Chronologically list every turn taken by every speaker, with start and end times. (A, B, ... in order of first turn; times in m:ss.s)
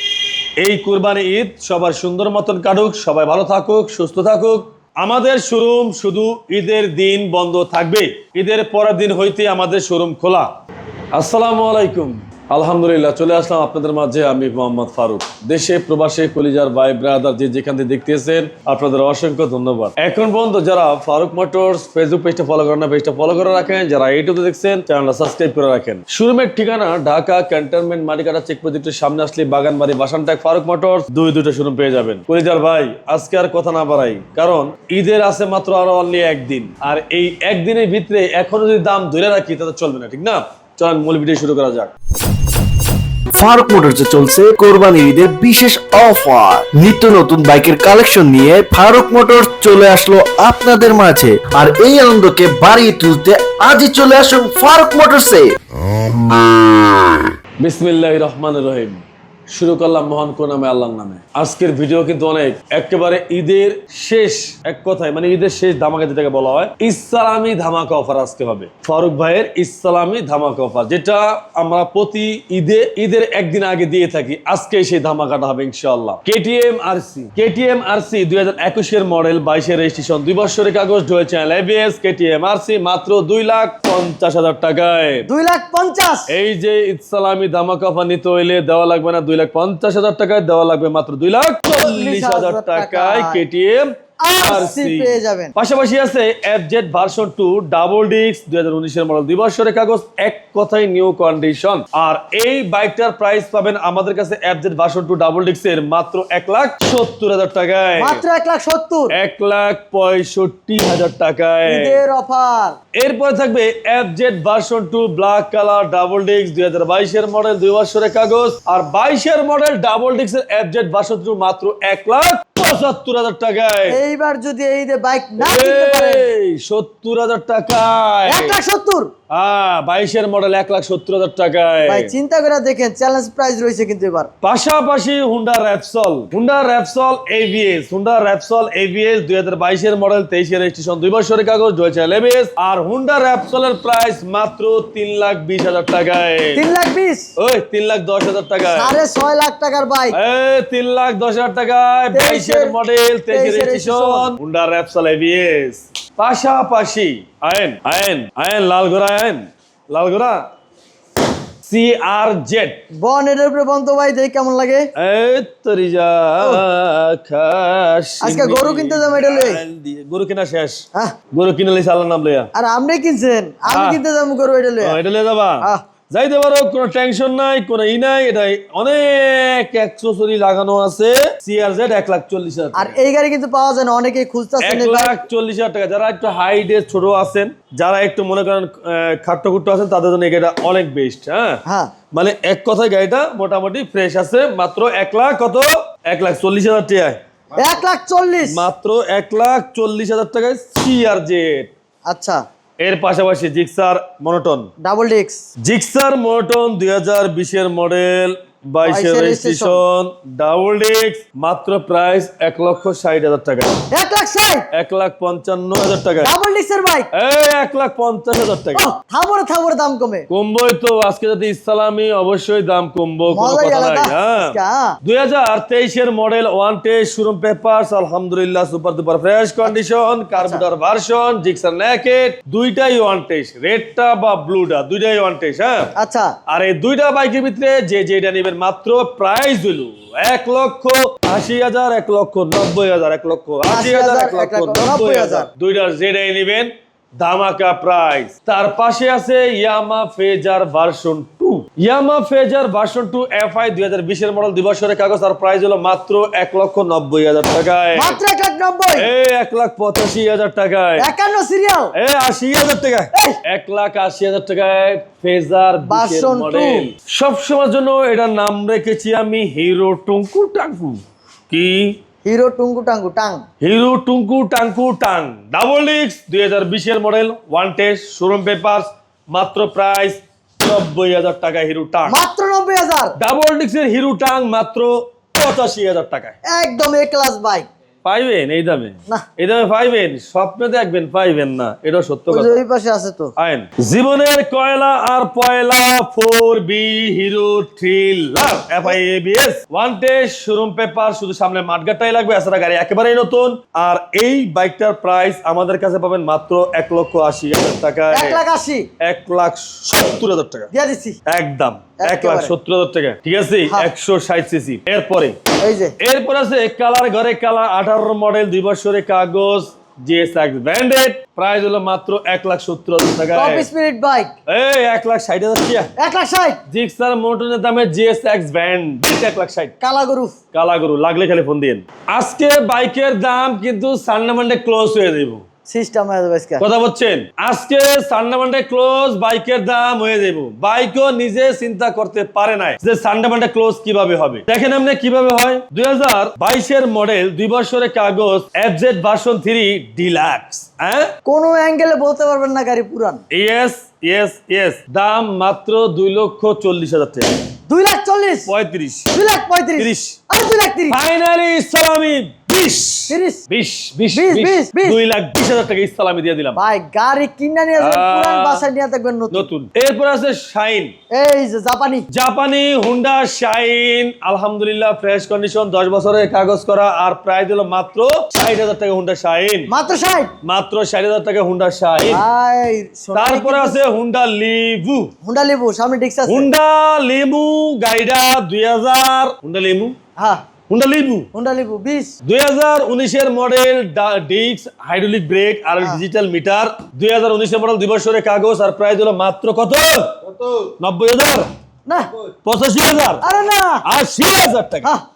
0:00.6-0:10.5 A
0:11.1-0:41.9 A
0:43.3-0:55.6 B
0:57.6-1:25.3 A
1:25.3-1:26.3 C
1:26.3-1:48.2 A
1:31.7-1:33.4 C
1:34.2-1:35.5 C
1:48.0-1:49.1 C
1:49.1-1:52.0 A
1:51.6-1:52.8 C
1:53.0-2:04.0 A
2:03.9-2:06.2 C
2:05.4-2:08.6 A
2:08.3-2:09.1 C
2:09.3-2:12.1 A
2:11.9-2:14.3 C
2:14.4-2:26.6 A
2:26.6-2:27.3 C
2:27.4-2:29.0 A
2:28.7-2:30.2 C
2:30.1-2:40.5 A
2:32.1-2:32.8 C
2:33.3-2:34.3 C
2:41.6-2:42.8 A
2:43.0-2:44.9 C
2:45.0-2:52.5 A
2:48.2-2:49.6 C
2:52.5-2:55.0 C
2:53.7-2:54.0 A
2:54.8-3:03.0 A
3:02.7-3:05.2 C
3:04.6-3:17.2 A
3:11.6-3:11.9 C
3:17.6-3:18.6 C
3:18.4-3:21.7 A
3:22.1-3:22.4 C
3:22.8-3:24.7 A
3:24.8-3:25.4 C
3:25.6-3:33.8 A
3:28.9-3:29.8 C
3:33.9-3:34.7 C
3:34.7-3:36.3 A
3:36.2-3:37.1 C
3:37.1-3:38.9 A
3:38.8-3:40.3 C
3:40.3-3:55.9 A
3:43.3-3:45.0 C
3:50.4-3:50.6 C
3:56.0-3:56.4 C
3:56.5-4:18.2 A
4:03.7-4:05.5 C
4:18.0-4:19.1 C
4:19.0-4:21.1 A
4:21.0-4:21.9 C
4:22.0-4:32.0 A
4:25.9-4:26.9 C
4:32.2-4:33.4 C
4:33.6-4:42.2 A
4:42.1-4:43.2 C
4:43.2-4:46.4 A
4:46.5-4:47.7 C
4:48.0-4:52.6 A
4:52.3-4:53.3 C
4:53.4-5:08.4 A
5:08.1-5:08.9 C
5:09.0-5:10.7 A
5:10.7-5:11.2 C
5:11.3-5:15.4 A
5:12.0-5:12.5 C
5:15.6-5:16.0 C
5:16.0-5:23.7 A
5:23.3-5:24.3 C
5:24.5-5:25.9 A
5:26.0-5:26.6 C
5:26.7-5:29.7 A
5:29.8-5:30.4 C
5:30.5-5:35.4 A
5:35.7-5:36.6 C
5:36.6-5:51.1 A
5:51.2-5:53.2 C
5:53.3-5:57.3 A
5:57.7-5:58.5 C
5:58.5-5:59.1 A
5:59.1-6:01.0 C
5:59.8-6:00.2 A
6:00.9-6:06.6 A
6:03.1-6:03.4 C
6:04.1-6:05.0 C
6:06.6-6:09.5 C
6:07.8-6:08.6 A
6:09.3-6:10.9 A
6:11.1-6:12.1 C
6:12.1-6:19.7 A
6:19.7-6:20.3 C
6:20.4-6:22.2 A
6:22.1-6:23.8 C
6:23.1-6:25.1 A
6:25.2-6:26.5 C
6:26.3-6:30.0 A
6:30.2-6:30.4 C
6:30.7-6:31.3 A
6:31.3-6:32.1 C
6:32.2-6:41.5 A
6:41.9-6:42.1 C
6:42.4-6:43.2 A
6:43.2-6:43.8 C
6:43.8-6:44.9 A